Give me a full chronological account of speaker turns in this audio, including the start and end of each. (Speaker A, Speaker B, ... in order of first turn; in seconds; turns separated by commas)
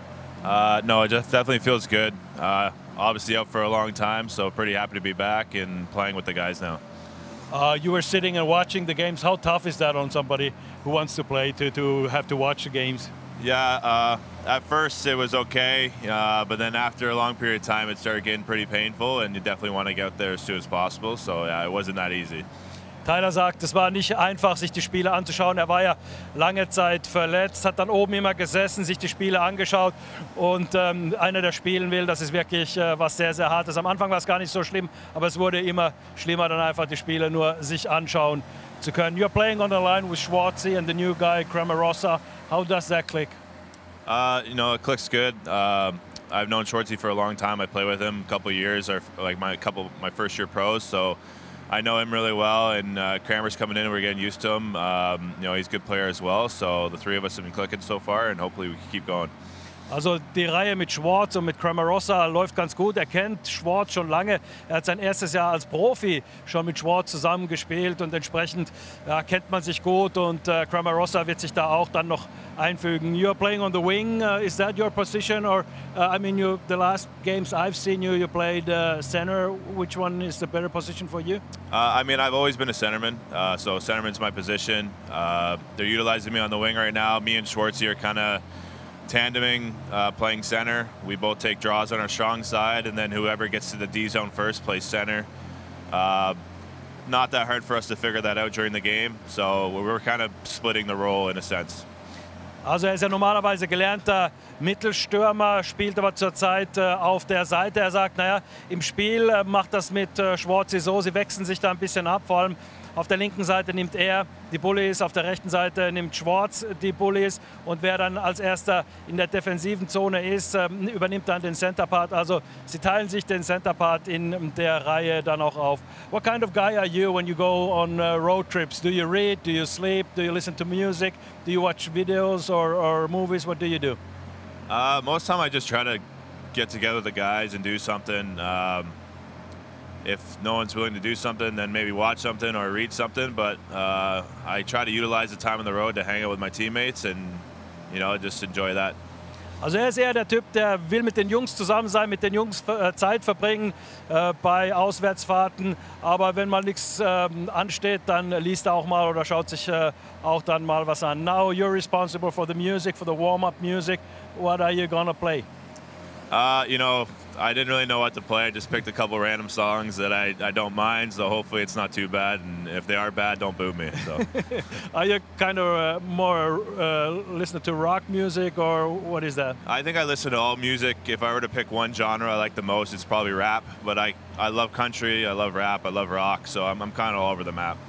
Speaker A: 0.4-6.8, Speaker B: 7.5-13.1, Speaker A: 13.4-22.4, Speaker B: 23.0-43.4, Speaker A: 44.0-51.2, Speaker A: 51.7-59.3, Speaker B: 59.9-81.4, Speaker A: 81.7-88.4, Speaker A: 89.1-95.3, Speaker A: 95.9-96.4, Speaker A: 97.0-101.8, Speaker B: 102.6-134.0, Speaker A: 134.7-136.0, Speaker A: 136.5-138.9, Speaker A: 140.0-148.9, Speaker B: 149.6-165.4, Speaker A: 166.3-174.3, Speaker B: 174.3-179.6, Speaker A: 179.6-187.8